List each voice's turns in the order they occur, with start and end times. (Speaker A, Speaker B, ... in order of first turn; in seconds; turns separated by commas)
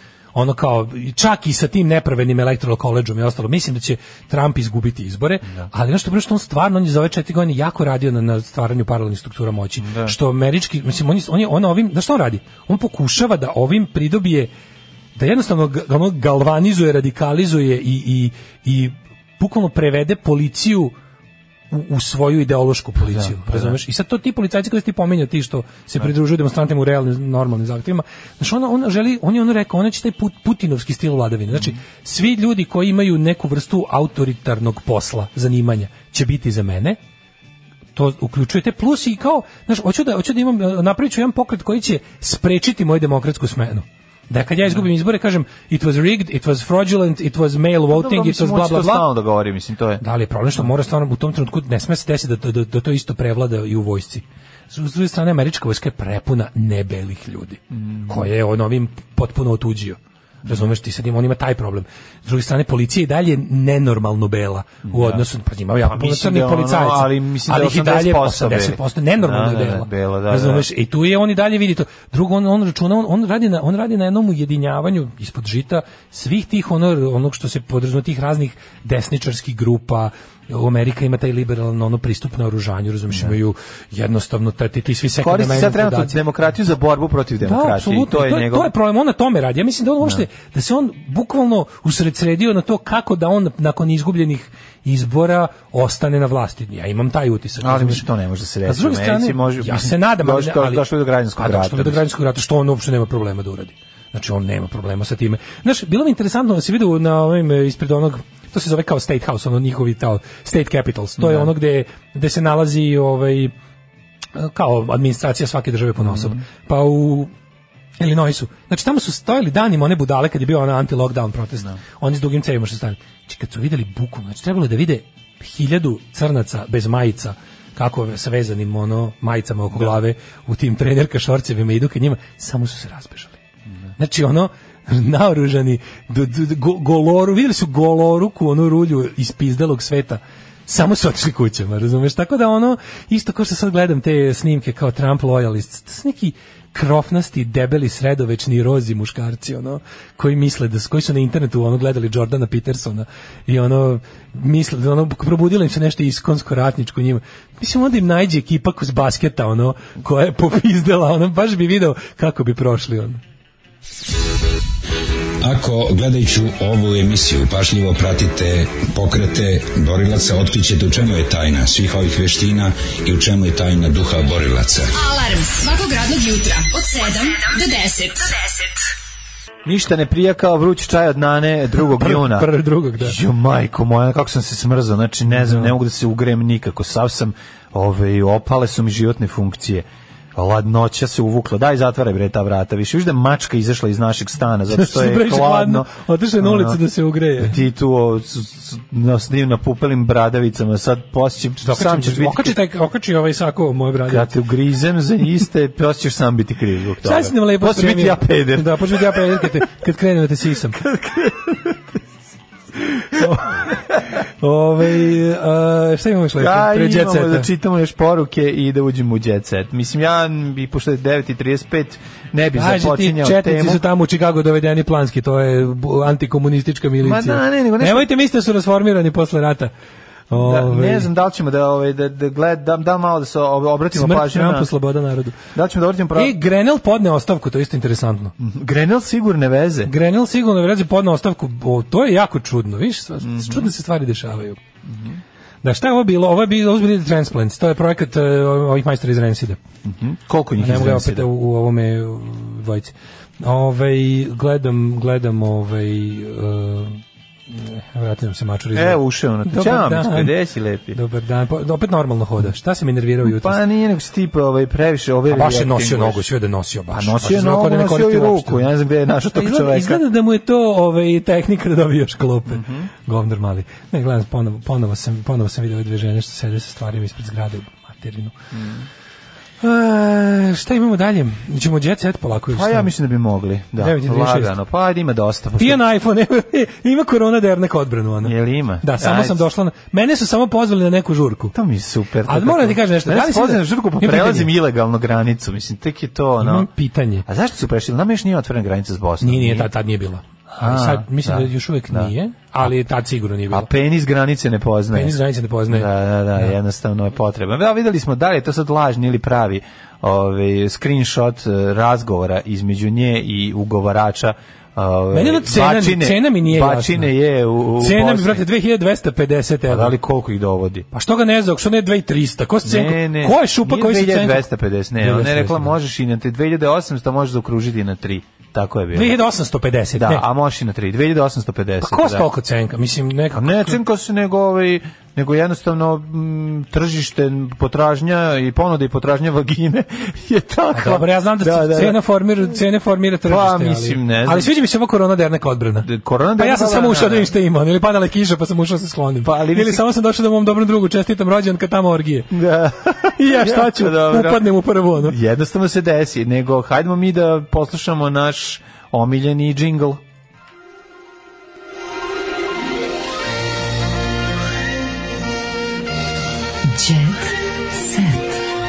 Speaker A: 0.3-14.5, Speaker B: 9.8-10.2, Speaker A: 15.2-20.9, Speaker A: 21.7-37.0, Speaker B: 23.0-23.8, Speaker A: 38.0-49.1, Speaker B: 47.9-50.0, Speaker A: 50.0-86.2, Speaker B: 57.8-58.3, Speaker B: 64.9-65.2, Speaker B: 65.8-70.7, Speaker B: 85.2-88.7, Speaker A: 87.4-98.0, Speaker B: 97.6-102.0, Speaker A: 98.7-100.8, Speaker A: 101.4-113.5, Speaker B: 111.2-111.5, Speaker A: 114.4-117.3, Speaker B: 116.0-116.4, Speaker A: 118.0-133.4, Speaker A: 134.0-163.2, Speaker C: 165.4-174.9, Speaker D: 174.9-178.7, Speaker B: 179.7-189.8, Speaker A: 181.8-183.2, Speaker A: 185.4-185.7, Speaker B: 190.4-196.8, Speaker A: 194.7-197.6, Speaker B: 197.4-202.6, Speaker A: 201.6-204.3, Speaker B: 204.1-209.4, Speaker A: 207.0-210.8, Speaker B: 210.8-211.8, Speaker A: 213.0-217.5, Speaker B: 216.4-223.8, Speaker A: 222.6-229.7, Speaker B: 227.0-228.1, Speaker A: 230.3-231.1, Speaker B: 230.4-234.7, Speaker A: 233.9-235.4, Speaker B: 235.6-236.3, Speaker A: 236.2-238.3, Speaker B: 238.4-239.9, Speaker A: 239.9-244.6, Speaker B: 243.2-243.7, Speaker B: 244.9-245.2, Speaker A: 245.6-249.6, Speaker B: 249.8-251.3, Speaker A: 250.6-260.3, Speaker B: 258.8-261.0, Speaker A: 260.9-263.6, Speaker B: 263.2-266.2, Speaker A: 265.3-268.7, Speaker B: 266.9-270.0, Speaker A: 269.3-278.3, Speaker B: 272.5-272.9, Speaker B: 278.5-278.9, Speaker A: 279.6-282.9, Speaker B: 282.5-285.8, Speaker A: 283.8-284.5, Speaker A: 285.6-291.6, Speaker B: 288.2-289.4, Speaker B: 291.6-296.7, Speaker A: 292.3-294.5, Speaker A: 296.4-297.2, Speaker B: 297.3-299.7, Speaker A: 299.2-303.7, Speaker B: 300.6-302.1, Speaker B: 303.5-305.1, Speaker A: 304.9-305.9, Speaker B: 305.7-318.4, Speaker A: 315.1-317.1, Speaker A: 317.8-319.9, Speaker B: 319.7-320.9, Speaker A: 320.9-324.4, Speaker B: 322.6-329.1, Speaker A: 325.0-325.7, Speaker A: 328.9-330.2, Speaker B: 330.0-332.3, Speaker A: 331.8-333.8, Speaker B: 333.4-342.0, Speaker A: 340.7-352.3, Speaker B: 343.3-344.5, Speaker B: 345.8-347.3, Speaker B: 349.2-349.8, Speaker B: 352.3-354.4, Speaker A: 353.2-355.2, Speaker B: 355.0-360.0